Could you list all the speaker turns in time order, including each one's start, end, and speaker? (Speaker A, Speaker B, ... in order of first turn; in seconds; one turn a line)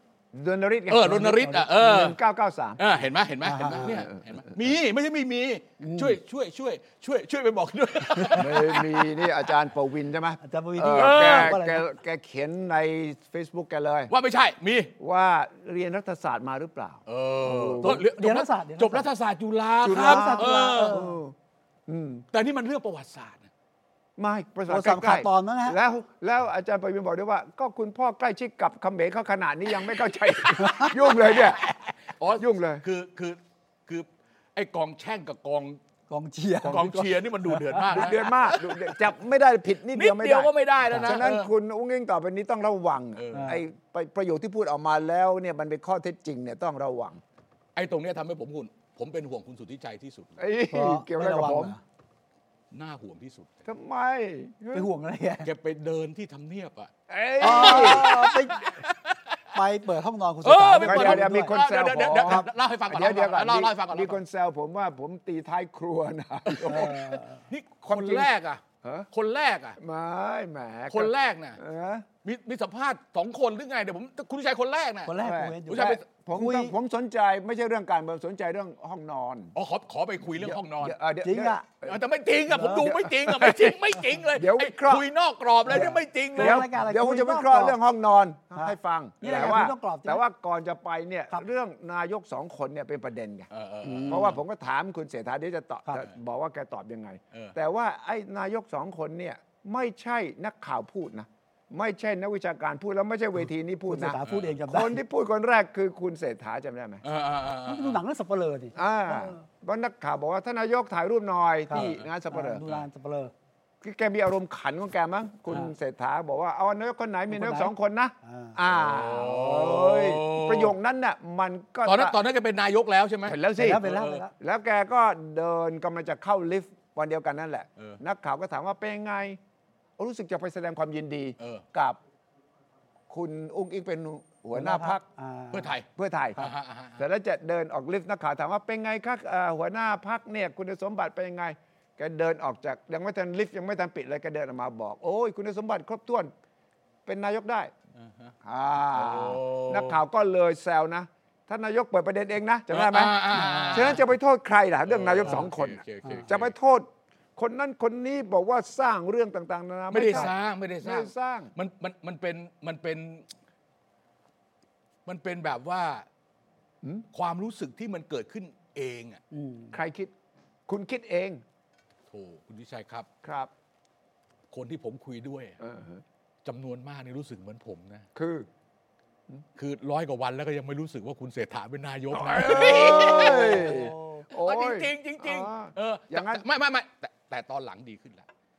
Speaker A: 0.3-2.8
Speaker B: 0.9-2.2
Speaker B: 2.8-9.1
Speaker C: 3.4-4.0
Speaker C: 5.8-6.2
Speaker A: 8.3-14.1
Speaker C: 10.4-11.8
Speaker B: 10.9-11.5
Speaker B: 14.1-14.9
Speaker A: 15.0-18.0
Speaker B: 17.1-21.0
Speaker C: 17.8-19.1
Speaker A: 19.8-21.3
Speaker C: 19.9-21.1
Speaker A: 21.9-22.2
Speaker B: 22.3-23.5
Speaker A: 24.2-31.7
Speaker C: 24.7-25.8
Speaker C: 30.6-30.9
Speaker B: 31.0-35.8
Speaker A: 32.4-32.8
Speaker C: 36.1-38.1
Speaker A: 36.6-36.9
Speaker B: 36.6-38.9
Speaker A: 37.9-47.2
Speaker B: 39.9-41.5
Speaker C: 40.9-41.1
Speaker B: 43.1-43.5
Speaker C: 43.3-43.6
Speaker B: 47.7-50.4
Speaker A: 50.4-51.8
Speaker C: 50.7-51.8
Speaker B: 52.7-53.6
Speaker A: 53.6-54.9
Speaker C: 54.7-55.5
Speaker B: 55.4-59.4
Speaker A: 57.1-58.0
Speaker C: 57.4-58.7
Speaker C: 59.5-61.5
Speaker B: 60.4-64.2
Speaker A: 60.8-67.0
Speaker C: 62.1-62.5
Speaker B: 66.5-69.8
Speaker C: 66.6-67.4
Speaker A: 67.9-68.3
Speaker A: 68.8-69.1
Speaker A: 69.8-72.1
Speaker B: 70.9-71.6
Speaker B: 72.2-75.1
Speaker C: 75.0-76.7
Speaker A: 75.2-79.5
Speaker B: 75.7-76.0
Speaker B: 79.5-81.0
Speaker A: 80.4-82.0
Speaker C: 81.2-81.6
Speaker B: 81.8-86.6
Speaker C: 82.5-82.8
Speaker A: 82.7-83.8
Speaker A: 84.3-85.0
Speaker A: 85.7-93.5
Speaker C: 85.7-87.8
Speaker C: 88.5-90.2
Speaker B: 89.2-89.6
Speaker B: 93.5-94.4
Speaker C: 93.8-94.3
Speaker A: 94.0-107.0
Speaker C: 103.9-105.0
Speaker B: 104.2-104.5
Speaker B: 107.0-108.0
Speaker C: 107.7-109.4
Speaker A: 108.7-112.6
Speaker C: 111.7-113.3
Speaker B: 111.7-112.0
Speaker A: 113.8-122.2
Speaker C: 117.3-117.7
Speaker C: 118.2-118.6
Speaker B: 118.7-120.7
Speaker B: 121.8-124.2
Speaker A: 123.2-123.8
Speaker C: 123.6-124.3
Speaker A: 124.4-129.4
Speaker A: 130.0-132.0
Speaker B: 131.4-131.6
Speaker A: 133.1-135.0
Speaker C: 134.5-135.7
Speaker B: 135.5-137.0
Speaker A: 135.9-146.3
Speaker A: 147.1-147.7
Speaker B: 147.9-148.3
Speaker A: 148.4-161.5
Speaker B: 148.9-150.0
Speaker B: 152.7-154.0
Speaker C: 153.3-154.0
Speaker B: 154.9-156.5
Speaker B: 159.9-163.2
Speaker B: 165.1-166.1
Speaker B: 167.1-169.2
Speaker C: 169.3-169.8
Speaker A: 169.7-170.1
Speaker A: 170.7-171.4
Speaker B: 172.1-173.1
Speaker A: 173.2-173.5
Speaker B: 174.5-175.6
Speaker A: 175.6-176.0
Speaker B: 176.4-178.1
Speaker A: 178.1-178.5
Speaker B: 179.6-188.3
Speaker A: 182.1-186.4
Speaker C: 182.8-184.2